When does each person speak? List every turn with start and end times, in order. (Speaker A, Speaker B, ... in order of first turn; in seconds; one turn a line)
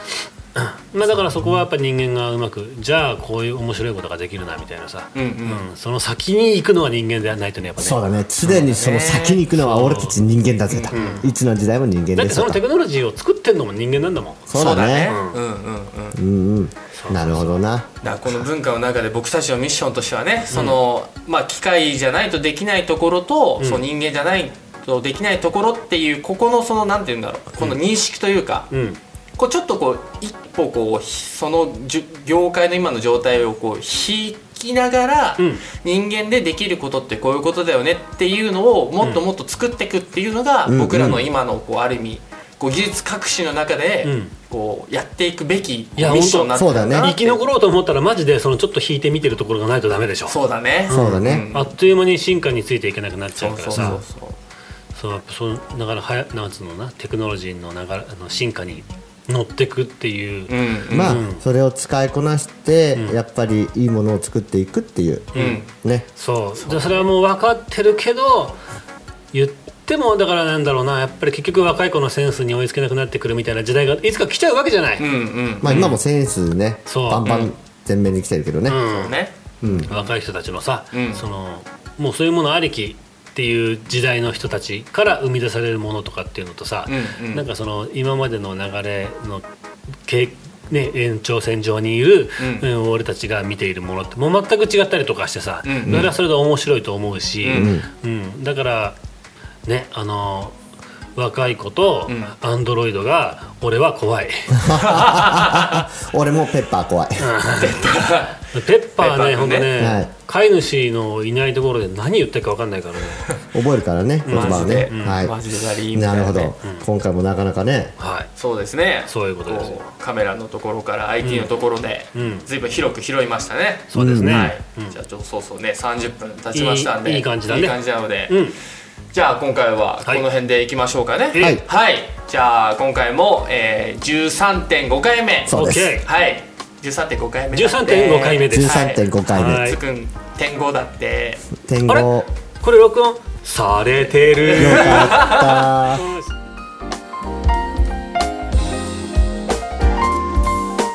Speaker A: 0.5-8.0
Speaker B: 5.1-5.6
Speaker C: 7.8-12.6
Speaker B: 8.4-9.4
Speaker A: 9.5-10.2
Speaker B: 10.7-11.2
Speaker A: 10.9-11.3
Speaker A: 12.1-15.4
Speaker C: 14.5-15.1
Speaker B: 14.5-16.2
Speaker C: 16.1-18.0
Speaker A: 16.9-17.6
Speaker B: 18.0-28.7
Speaker A: 20.5-20.8
Speaker A: 28.7-29.0
Speaker B: 29.4-47.4
Speaker C: 40.7-41.2
Speaker A: 44.0-44.3
Speaker A: 46.0-50.4
Speaker C: 46.5-47.1
Speaker B: 50.3-51.7
Speaker A: 50.9-54.0
Speaker C: 50.9-51.5
Speaker B: 53.4-54.4
Speaker A: 54.9-61.4
Speaker B: 60.5-61.2
Speaker C: 60.9-66.1
Speaker A: 65.3-65.6
Speaker B: 65.3-65.7
Speaker A: 66.2-68.6
Speaker B: 66.6-67.0
Speaker A: 69.3-75.0
Speaker B: 75.0-75.9
Speaker C: 75.6-78.8
Speaker A: 75.7-76.0
Speaker A: 76.9-77.3
Speaker B: 77.2-77.5
Speaker A: 78.7-79.2
Speaker B: 78.8-80.1
Speaker C: 79.6-79.9
Speaker A: 79.8-89.5
Speaker B: 80.9-81.2
Speaker B: 86.9-87.4
Speaker A: 90.0-99.0
Speaker B: 92.4-92.7
Speaker B: 95.6-96.1
Speaker C: 95.8-96.1
Speaker B: 97.4-97.7
Speaker C: 97.5-97.9
Speaker A: 99.7-100.6
Speaker A: 101.2-105.0
Speaker B: 102.1-102.3
Speaker C: 104.5-107.3
Speaker B: 105.0-105.8
Speaker A: 107.2-107.9
Speaker B: 107.6-109.7
Speaker A: 108.5-113.3
Speaker C: 109.8-110.1
Speaker C: 113.5-115.3
Speaker A: 114.2-115.2
Speaker B: 114.3-116.5
Speaker C: 115.9-117.9
Speaker A: 118.0-118.3
Speaker B: 118.4-128.4
Speaker A: 119.1-119.9
Speaker A: 121.2-121.5
Speaker A: 122.1-122.5
Speaker A: 123.9-124.9
Speaker C: 123.9-124.5
Speaker A: 126.5-128.6
Speaker B: 129.1-141.5
Speaker A: 131.3-131.6
Speaker C: 135.5-135.9
Speaker A: 135.5-136.1
Speaker A: 137.5-139.8
Speaker C: 138.5-139.7
Speaker C: 141.6-142.3
Speaker A: 141.9-145.3
Speaker B: 144.4-145.6
Speaker C: 144.6-146.1
Speaker A: 145.9-146.3